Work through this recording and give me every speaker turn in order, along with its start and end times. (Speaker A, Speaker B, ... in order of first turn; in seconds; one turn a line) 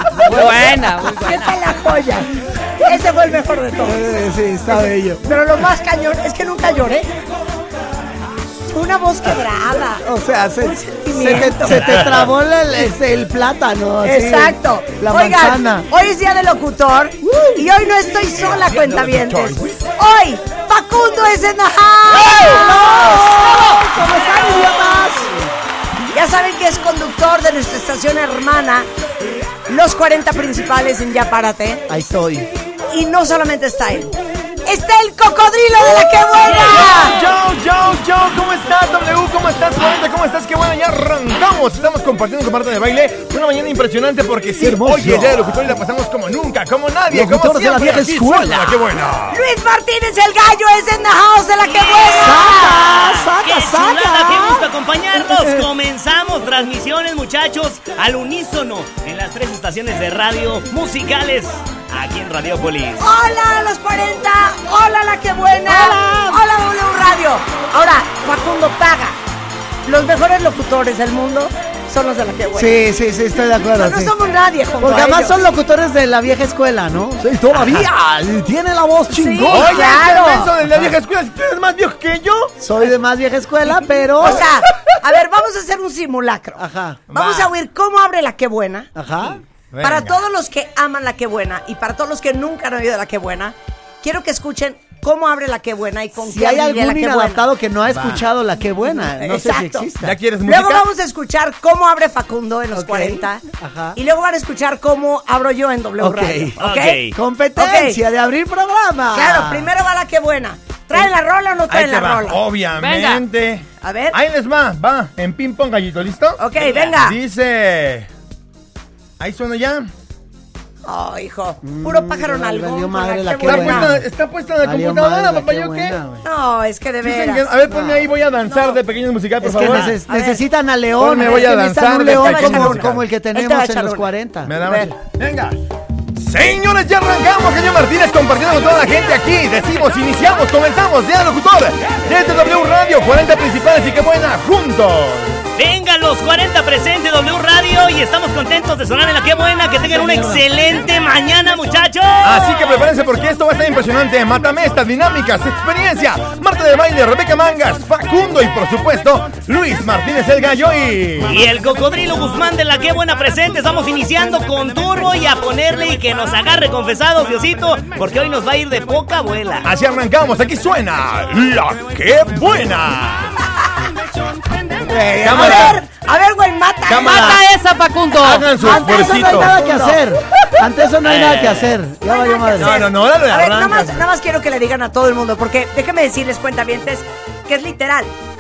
Speaker A: 0.2-1.6
Speaker B: 0.3-4.1
Speaker C: 0.3-0.6
Speaker C: 3.8-5.2
Speaker B: 5.2-7.1
Speaker B: 8.7-10.1
Speaker C: 10.0-15.9
Speaker B: 10.6-12.0
Speaker B: 14.0-24.7
Speaker C: 17.2-17.7
Speaker D: 18.5-19.8
Speaker C: 22.1-25.5
Speaker B: 26.1-28.9
Speaker B: 29.7-31.9
Speaker C: 31.9-32.5
Speaker B: 32.9-37.2
Speaker D: 36.5-49.4
Speaker C: 44.6-45.4
Speaker C: 47.1-48.8
Speaker B: 49.3-52.8
Speaker E: 51.6-63.1
Speaker C: 52.1-54.7
Speaker B: 63.0-69.2
Speaker C: 65.7-66.4
Speaker B: 69.9-72.8
Speaker C: 72.5-74.1
Speaker B: 73.8-75.4
Speaker C: 74.8-80.0
Speaker B: 79.1-80.5
Speaker D: 79.5-82.5
Speaker C: 80.7-81.0
Speaker C: 82.6-84.5
Speaker B: 84.2-88.9
Speaker D: 84.4-85.0
Speaker C: 86.6-87.0
Speaker D: 87.1-87.5
Speaker C: 89.0-89.4
Speaker D: 89.7-90.2
Speaker B: 89.8-97.5
Speaker C: 96.2-100.2
Speaker D: 98.0-98.2
Speaker B: 98.8-99.9
Speaker D: 100.0-100.8
Speaker B: 100.5-103.4
Speaker C: 102.7-104.0
Speaker B: 104.0-108.0
Speaker C: 106.0-106.6
Speaker E: 106.6-107.2
Speaker C: 107.1-109.7
Speaker B: 109.1-112.4
Speaker D: 111.7-118.1
Speaker A: 112.8-113.2
Speaker B: 113.8-114.2
Speaker B: 116.4-117.2
Speaker E: 116.6-116.9
Speaker D: 119.2-119.9
Speaker B: 120.8-124.0
Speaker C: 121.6-124.0
Speaker D: 123.4-126.2
Speaker C: 124.6-126.2
Speaker B: 126.2-127.5
Speaker D: 127.0-130.0
Speaker C: 127.7-128.1
Speaker B: 128.5-128.8
Speaker C: 129.4-134.6
Speaker B: 129.5-130.4
Speaker D: 131.0-133.0
Speaker B: 131.2-134.1
Speaker D: 134.5-135.6
Speaker B: 134.6-134.9
Speaker D: 136.2-145.4
Speaker E: 145.6-152.9
Speaker D: 152.2-161.4
Speaker E: 161.2-169.7
Speaker D: 169.6-173.4
Speaker B: 174.8-177.4
Speaker C: 174.9-175.8
Speaker D: 175.2-175.8
Speaker D: 176.9-177.4
Speaker A: 177.0-178.5
Speaker D: 178.2-179.5
Speaker C: 178.6-182.8
Speaker B: 178.6-180.0
Speaker E: 181.0-181.8
Speaker B: 182.0-188.1
Speaker D: 182.6-184.0